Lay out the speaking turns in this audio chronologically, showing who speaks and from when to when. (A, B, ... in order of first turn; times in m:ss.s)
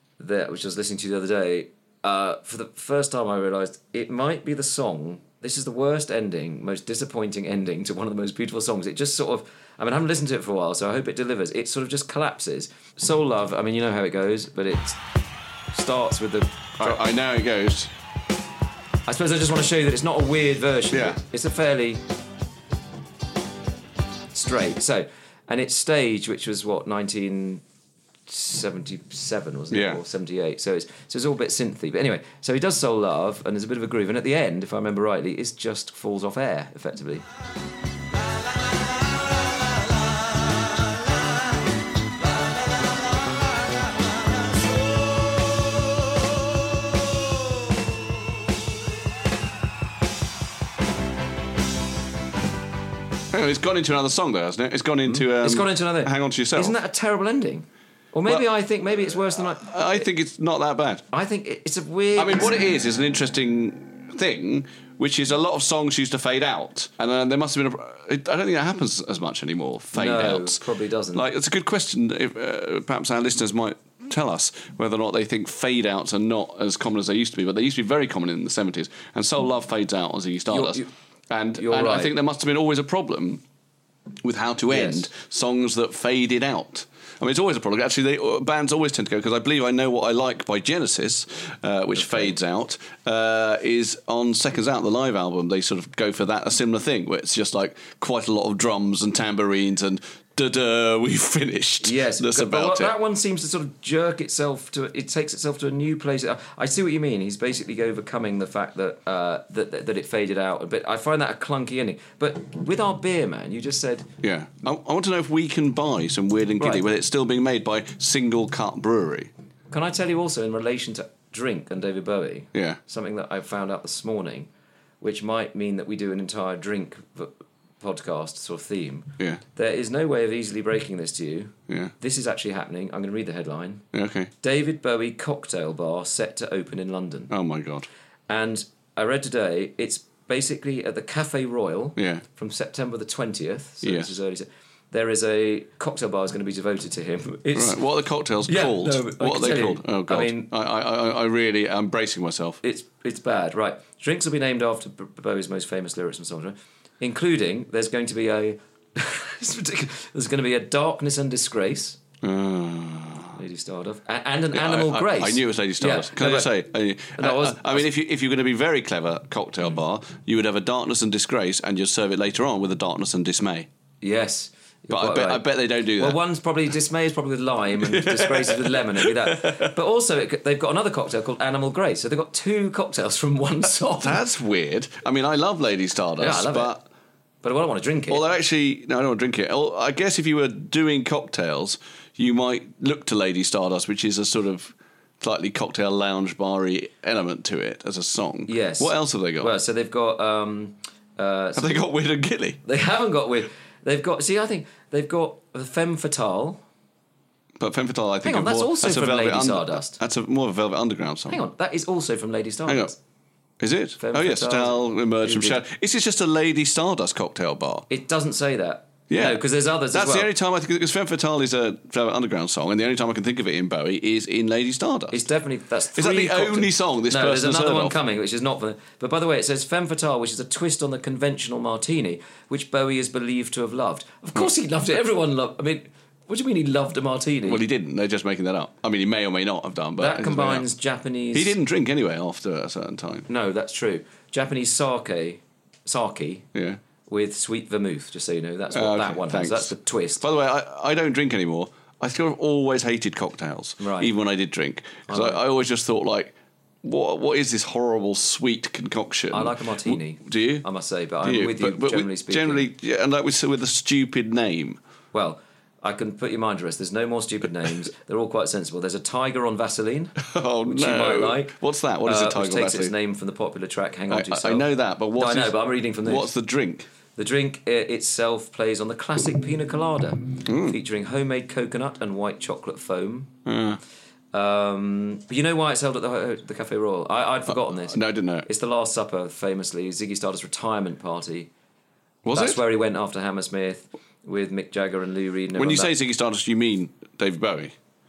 0:00.2-0:15.0 A
0:15.7-0:17.0 A
0:16.8-0:17.9 B
0:19.1-0:22.0 A
0:20.9-0:21.2 B
0:24.3-0:27.6 A
0:28.3-0:37.3 A
0:29.7-0:30.0 B
0:53.3-0:56.8 B
0:55.1-1:00.0 A
0:58.3-1:01.1 B
1:01.1-1:02.6 A
1:02.2-1:23.4 B
1:09.9-1:11.2 A
1:20.5-1:20.9 A
1:21.5-1:22.2 A
1:24.2-1:42.9 B
1:24.7-1:25.1 A
1:32.0-1:32.4 A
1:41.8-1:54.1 A
1:54.2-1:59.3 B
1:56.6-1:56.9 A
1:59.7-2:04.5 A
2:02.5-2:02.8 B
2:05.0-2:13.8 A
2:13.9-2:14.3 B
2:14.4-2:17.3 A
2:17.3-2:17.9 B
2:18.3-2:27.8 A
2:22.0-2:22.2 B
2:23.8-2:24.1 B
2:27.5-2:32.6 B
2:28.4-2:30.5 A
2:32.6-2:42.0 A
2:42.2-2:43.4 B
2:43.4-2:46.5 A
2:44.5-2:53.7 B
2:47.2-2:47.9 A
2:54.0-3:04.2 A
2:54.9-2:56.2 B
2:57.8-2:59.8 B
3:04.0-3:06.8 B
3:06.2-3:06.8 A
3:07.4-3:08.2 A
3:08.1-3:19.5 B
3:18.5-3:21.9 A
3:21.6-3:22.6 B
3:22.6-3:26.6 A
3:27.6-3:31.4 B
3:28.2-3:30.0 A
3:31.3-3:33.0 A
3:32.7-3:32.9 B
3:33.6-3:37.9 B
3:34.0-3:35.6 A
3:37.9-3:40.3 A
3:39.1-3:45.2 B
3:45.1-3:57.6 A
3:46.0-3:48.0 B
3:57.4-4:00.7 B
4:00.0-4:01.6 A
4:01.3-4:03.3 B
4:03.3-4:06.5 A
4:06.5-4:06.8 B
4:07.1-4:10.2 A
4:08.7-4:20.7 B
4:13.8-4:14.1 A
4:15.1-4:15.4 A
4:19.3-4:22.7 A
4:21.2-4:24.8 B
4:25.1-4:36.3 A
4:30.2-4:33.0 B
4:34.1-4:36.9 B
4:37.2-4:43.4 A
4:40.5-4:40.8 B
4:43.5-4:43.8 B
4:44.3-4:51.5 A
4:47.5-4:48.5 B
4:52.2-4:52.6 B
4:52.3-4:55.9 A
4:55.6-4:57.8 B